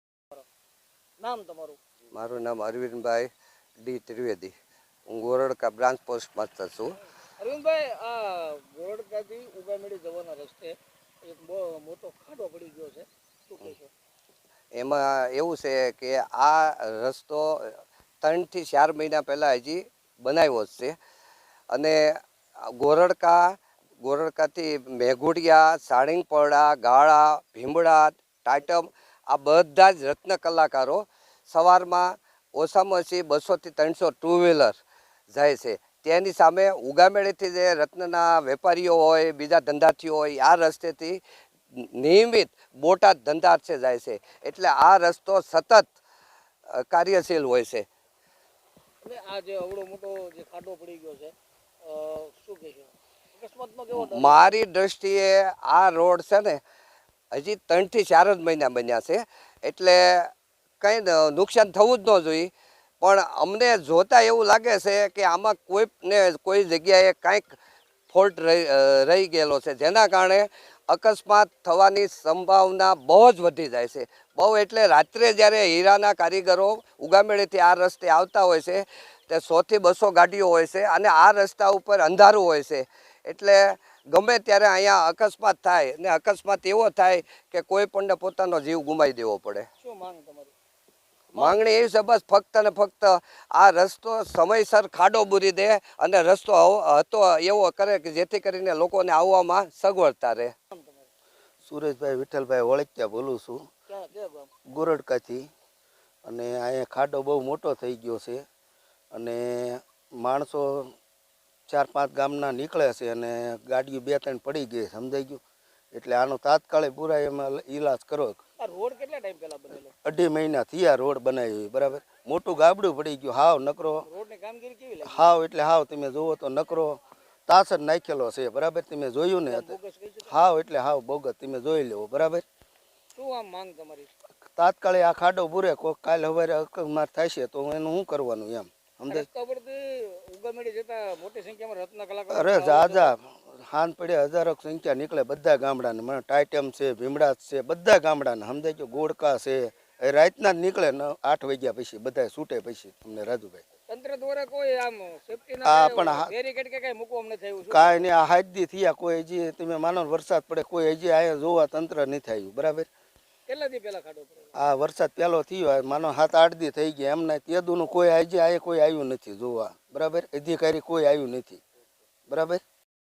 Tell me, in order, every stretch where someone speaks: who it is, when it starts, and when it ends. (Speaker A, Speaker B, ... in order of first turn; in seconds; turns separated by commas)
Speaker A: 1.2-1.8, Speaker B: 2.1-3.3, Speaker B: 3.8-4.5, Speaker B: 5.1-7.0, Speaker A: 7.4-13.9, Speaker B: 14.7-20.9, Speaker B: 21.7-22.1, Speaker B: 22.7-34.8, Speaker B: 35.3-41.2, Speaker B: 41.7-45.9, Speaker B: 46.7-47.9, Speaker A: 49.0-54.5, Speaker B: 53.9-56.6, Speaker B: 57.3-62.5, Speaker B: 63.0-67.5, Speaker B: 68.1-89.7, Speaker A: 89.8-90.5, Speaker B: 91.3-100.5, Speaker A: 100.7-101.1, Speaker C: 101.6-103.6, Speaker A: 103.9-104.5, Speaker C: 104.7-105.5, Speaker C: 106.2-108.4, Speaker C: 109.1-110.9, Speaker C: 111.7-115.4, Speaker C: 115.9-118.4, Speaker A: 118.6-119.9, Speaker C: 120.0-124.0, Speaker A: 124.0-125.2, Speaker C: 125.0-129.7, Speaker A: 129.5-130.3, Speaker C: 130.3-132.4, Speaker A: 133.1-134.1, Speaker C: 134.6-139.3, Speaker A: 139.1-143.1, Speaker C: 142.3-153.6, Speaker A: 153.9-158.1, Speaker C: 155.6-156.3, Speaker C: 157.7-162.9, Speaker A: 163.5-164.5, Speaker C: 164.5-171.6, Speaker C: 172.3-172.6